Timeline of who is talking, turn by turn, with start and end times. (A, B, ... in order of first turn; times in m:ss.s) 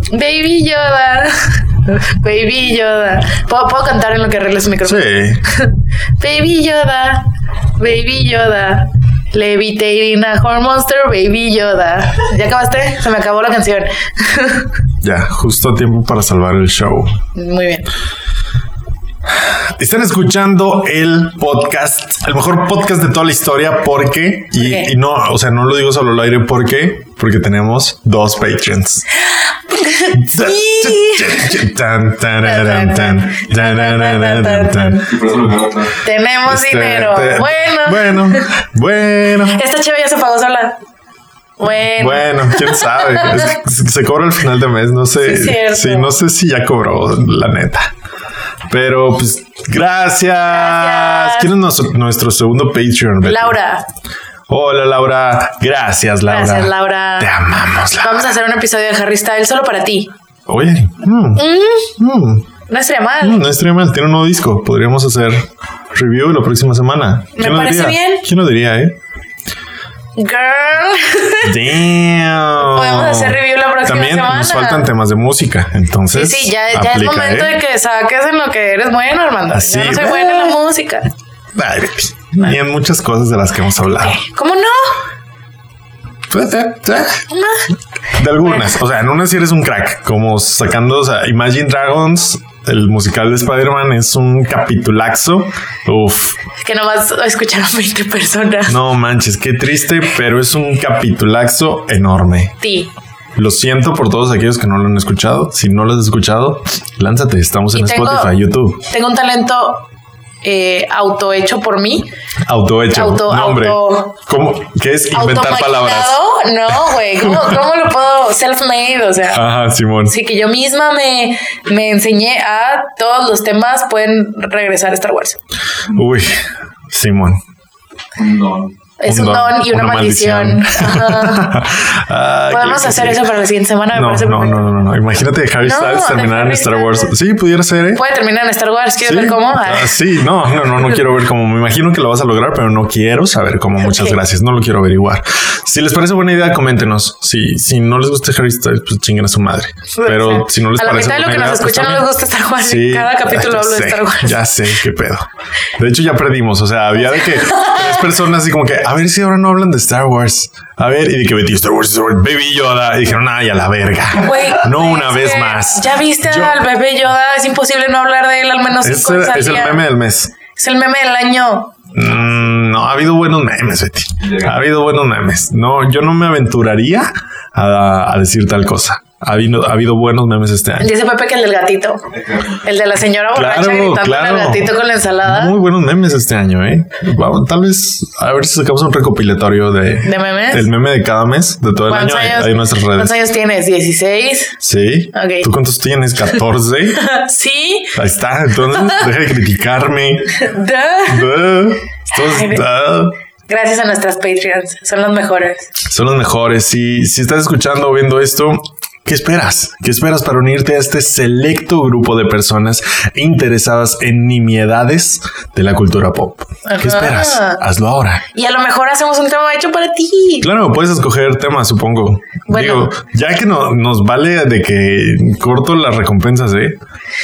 0:00.1-0:07.3 A
0:04.8-0:05.4 B
0:07.8-0:14.7 A
0:15.0-0:17.2 B
0:17.3-0:17.9 A
0:19.4-0:29.0 B
0:24.6-0:24.9 A
0:29.7-0:31.5 A
0:30.1-0:35.2 B
0:32.4-0:35.1 A
0:35.1-0:35.9 C
0:36.0-0:38.5 A
0:36.5-0:39.6 B
0:39.4-0:40.8 A
0:41.6-0:43.5 A
0:41.9-0:47.9 B
0:45.2-0:46.1 A
0:48.7-0:53.6 B
0:50.5-0:51.5 A
0:53.2-0:53.8 A
0:54.5-0:58.4 B
0:56.3-0:57.3 A
0:58.0-1:00.1 A
1:00.5-1:01.4 B
1:01.4-1:02.0 A
1:02.0-1:02.4 B
1:02.7-1:03.4 A
1:03.2-1:09.0 B
1:07.3-1:08.2 A
1:10.2-1:11.6 A
1:11.4-1:17.6 B
1:12.6-1:14.9 A
1:16.1-1:21.1 A
1:19.5-1:20.6 B
1:21.5-1:24.2 B
1:24.0-1:25.0 A
1:26.3-1:27.2 B
1:27.3-1:27.6 A
1:28.1-1:36.4 B
1:28.4-1:28.7 A
1:36.6-1:38.8 A
1:38.7-1:42.6 B
1:42.6-1:42.9 A
1:43.4-1:48.8 B
1:47.7-1:48.3 A
1:48.8-1:49.8 A
1:50.4-1:52.1 A
1:52.4-1:56.2 B
1:52.9-1:54.2 A
1:55.1-1:59.4 A
1:57.2-1:57.6 B
1:59.3-2:00.1 B
2:00.0-2:05.4 A
2:05.9-2:07.4 B
2:08.2-2:08.7 C
2:09.0-2:11.5 A
2:09.0-2:13.3 B
2:12.5-2:14.7 A
2:13.9-2:18.0 B
2:15.6-2:17.1 A
2:17.9-2:20.0 A
2:19.0-2:46.6 B
2:23.8-2:24.2 A
2:29.9-2:34.4 A
2:37.0-2:38.1 A
2:44.2-2:49.8 A
2:48.8-2:50.3 B
2:50.5-2:51.7 A
2:51.9-3:00.9 B
2:54.2-2:54.5 C
3:00.8-3:02.0 A
3:02.1-3:02.6 C
3:02.6-3:05.5 A
3:03.3-3:13.1 B
3:10.0-3:10.7 A
3:11.8-3:14.6 A
3:14.6-3:17.0 B
3:15.1-3:15.5 A
3:16.9-3:18.0 A
3:17.9-3:20.4 B
3:18.7-3:19.1 A
3:20.3-3:21.3 A
3:21.0-3:23.2 B
3:22.1-3:22.6 A
3:23.5-3:25.7 A
3:25.8-3:38.2 B
3:36.6-3:37.6 A
3:38.3-3:40.5 A
3:40.4-3:46.8 B
3:42.5-3:42.9 A